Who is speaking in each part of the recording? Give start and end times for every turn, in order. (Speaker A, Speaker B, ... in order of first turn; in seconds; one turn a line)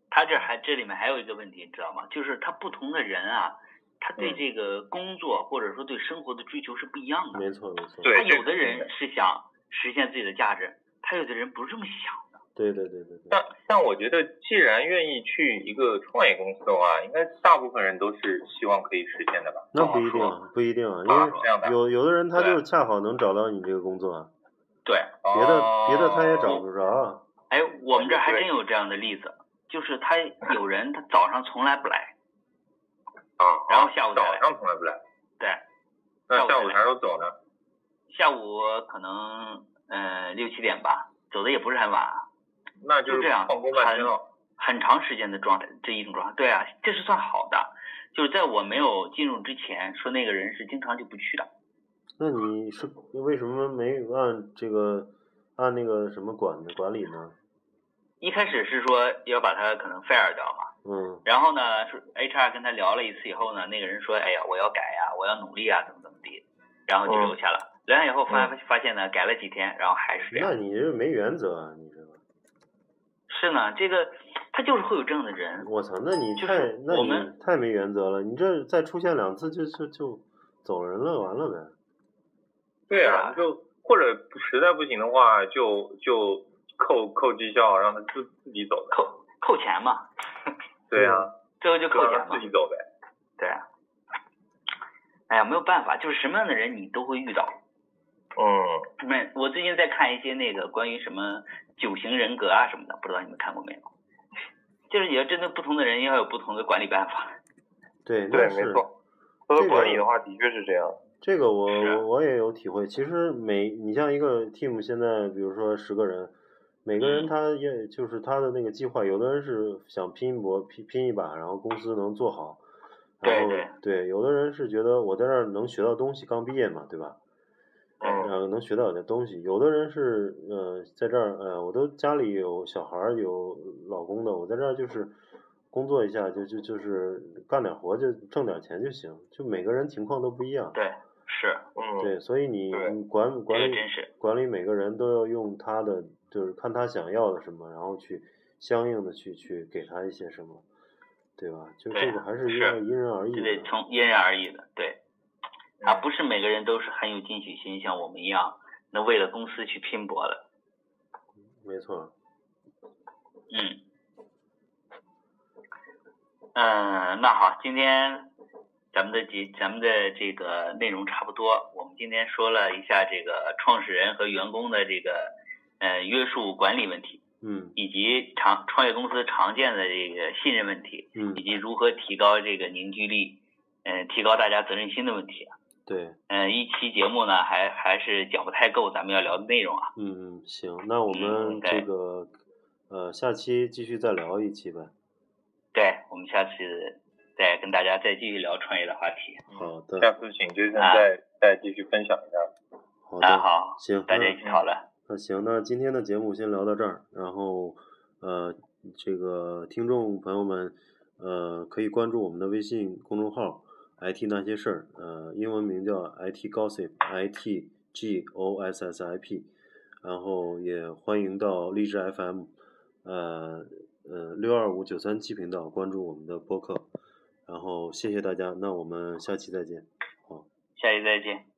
Speaker A: 0.1-7.4
Speaker B: 7.3-8.1
Speaker C: 8.0-8.9
Speaker A: 8.1-12.4
Speaker B: 12.6-13.4
Speaker C: 13.3-19.7
Speaker B: 19.7-24.3
Speaker A: 19.8-20.3
Speaker C: 21.1-21.8
Speaker A: 21.1-21.4
Speaker A: 24.8-25.2
Speaker C: 25.2-26.5
Speaker B: 25.3-27.2
Speaker A: 27.5-32.1
Speaker C: 27.9-28.5
Speaker C: 33.4-35.0
Speaker A: 33.7-34.4
Speaker C: 36.3-37.3
Speaker A: 36.3-36.8
Speaker A: 38.1-42.2
Speaker C: 42.8-44.2
Speaker A: 43.1-51.5
Speaker B: 52.2-57.4
Speaker A: 58.2-60.7
Speaker B: 60.8-61.2
Speaker A: 61.2-70.5
Speaker C: 67.1-67.3
Speaker B: 70.3-72.2
Speaker A: 73.3-75.7
Speaker B: 75.6-81.7
Speaker A: 76.4-77.3
Speaker C: 82.9-89.0
Speaker A: 83.0-83.4
Speaker A: 88.9-90.5
Speaker C: 90.9-91.3
Speaker B: 91.0-91.3
Speaker A: 91.6-92.4
Speaker C: 91.9-92.8
Speaker A: 93.4-93.6
Speaker A: 95.3-97.6
Speaker C: 98.3-98.9
Speaker A: 99.0-103.9
Speaker A: 104.9-107.4
Speaker B: 108.0-108.8
Speaker C: 108.3-108.9
Speaker C: 109.5-111.0
Speaker B: 109.5-110.1
Speaker B: 111.2-122.6
Speaker A: 111.7-112.0
Speaker A: 117.0-117.3
Speaker B: 123.2-127.2
Speaker A: 123.2-123.7
Speaker C: 128.0-128.3
Speaker B: 128.0-135.2
Speaker B: 135.7-140.8
Speaker A: 140.7-141.7
Speaker C: 141.8-142.1
Speaker B: 142.0-150.7
Speaker A: 143.5-144.1
Speaker B: 151.4-153.7
Speaker A: 151.9-152.8
Speaker A: 153.3-155.0
Speaker C: 155.8-156.1
Speaker A: 155.8-160.4
Speaker B: 161.6-162.1
Speaker A: 163.5-163.8
Speaker A: 166.5-168.3
Speaker A: 168.9-177.2
Speaker B: 177.4-177.8
Speaker A: 177.8-185.6
Speaker B: 181.2-181.5
Speaker B: 185.9-186.2
Speaker A: 186.3-189.9
Speaker B: 190.0-192.3
Speaker A: 191.1-191.8
Speaker B: 192.9-194.9
Speaker A: 195.7-199.4
Speaker C: 199.5-202.5
Speaker B: 199.5-200.1
Speaker A: 200.8-201.1
Speaker B: 203.1-204.4
Speaker A: 203.2-204.9
Speaker B: 205.1-219.5
Speaker B: 220.0-222.5
Speaker B: 223.0-226.9
Speaker B: 227.4-230.5
Speaker A: 230.8-231.4